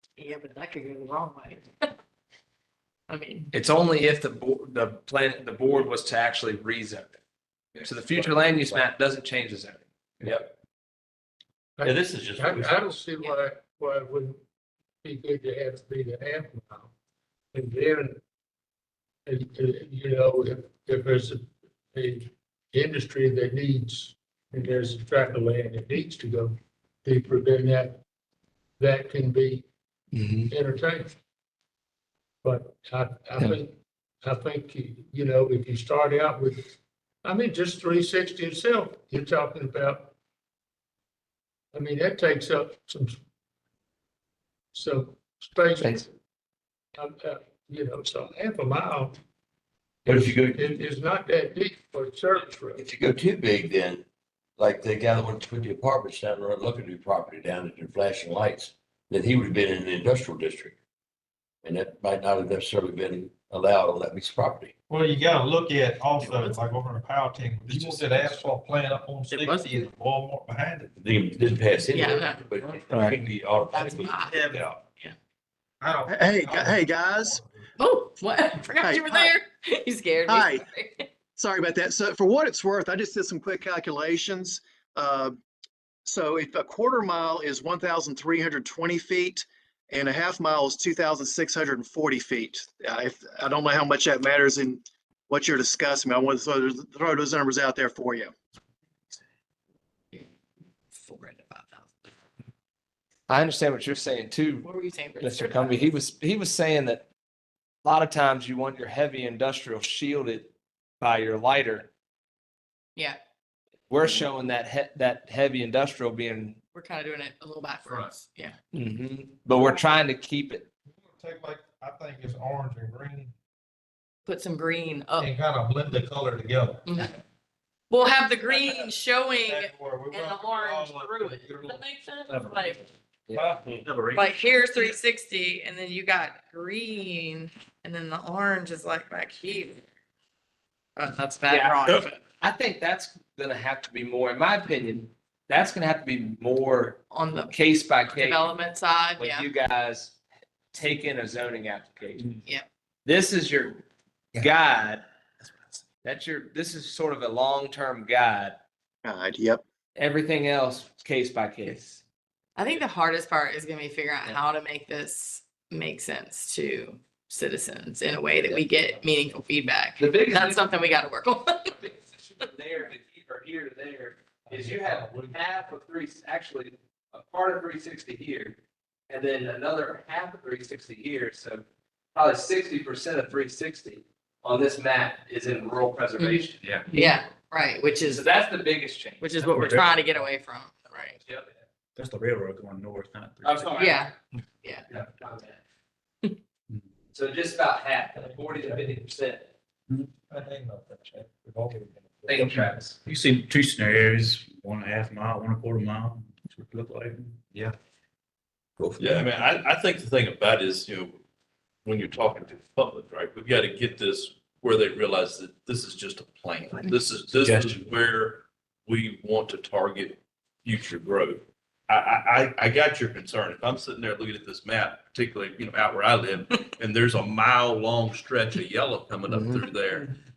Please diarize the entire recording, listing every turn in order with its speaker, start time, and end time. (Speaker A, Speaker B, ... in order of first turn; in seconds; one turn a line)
Speaker A: 0.2-1.9
Speaker A: 3.1-3.5
Speaker B: 3.5-7.2
Speaker B: 7.8-10.4
Speaker C: 8.1-8.4
Speaker C: 10.2-10.5
Speaker D: 11.8-14.4
Speaker C: 11.8-13.0
Speaker D: 15.0-16.9
Speaker D: 17.5-18.2
Speaker D: 19.3-28.0
Speaker D: 28.8-29.6
Speaker B: 30.1-30.5
Speaker D: 30.5-31.1
Speaker D: 32.4-36.7
Speaker D: 37.2-40.1
Speaker D: 41.7-43.2
Speaker D: 44.7-46.0
Speaker B: 45.8-46.1
Speaker D: 47.0-49.2
Speaker C: 50.1-50.8
Speaker D: 50.1-52.9
Speaker C: 52.8-54.0
Speaker C: 54.6-60.8
Speaker C: 61.6-64.7
Speaker E: 64.9-71.0
Speaker A: 66.2-66.6
Speaker A: 69.3-69.8
Speaker C: 71.0-74.7
Speaker A: 71.9-72.4
Speaker B: 72.9-73.2
Speaker A: 73.7-74.4
Speaker E: 73.9-74.7
Speaker E: 75.8-77.7
Speaker F: 76.1-77.4
Speaker A: 77.8-81.1
Speaker F: 78.8-79.3
Speaker F: 80.3-80.6
Speaker F: 81.3-85.3
Speaker F: 86.0-98.3
Speaker A: 100.9-101.9
Speaker B: 103.3-107.1
Speaker A: 104.6-105.9
Speaker B: 107.8-111.9
Speaker B: 113.9-116.6
Speaker A: 116.7-118.5
Speaker B: 118.7-120.7
Speaker E: 121.0-123.3
Speaker A: 124.2-125.3
Speaker E: 125.2-126.8
Speaker A: 126.8-127.2
Speaker A: 127.9-132.8
Speaker E: 129.4-131.8
Speaker G: 132.3-132.6
Speaker E: 133.3-133.6
Speaker G: 133.8-134.2
Speaker A: 134.1-139.8
Speaker A: 140.9-142.2
Speaker B: 141.5-148.5
Speaker A: 147.1-149.5
Speaker B: 149.2-150.2
Speaker B: 150.7-152.3
Speaker B: 153.0-155.0
Speaker B: 156.0-158.6
Speaker F: 159.0-159.6
Speaker B: 159.9-162.0
Speaker A: 162.6-171.8
Speaker B: 170.0-170.7
Speaker B: 171.7-178.6
Speaker E: 174.5-175.4
Speaker B: 179.1-187.2
Speaker A: 186.2-188.2
Speaker B: 188.0-189.4
Speaker A: 189.2-191.2
Speaker G: 189.4-189.9
Speaker G: 191.9-193.9
Speaker B: 193.4-194.1
Speaker A: 193.8-194.9
Speaker B: 194.9-195.6
Speaker B: 197.1-199.5
Speaker E: 198.2-198.9
Speaker E: 200.3-202.4
Speaker B: 202.3-203.0
Speaker G: 202.3-207.4
Speaker H: 209.0-211.2
Speaker H: 211.8-230.1
Speaker B: 229.3-229.7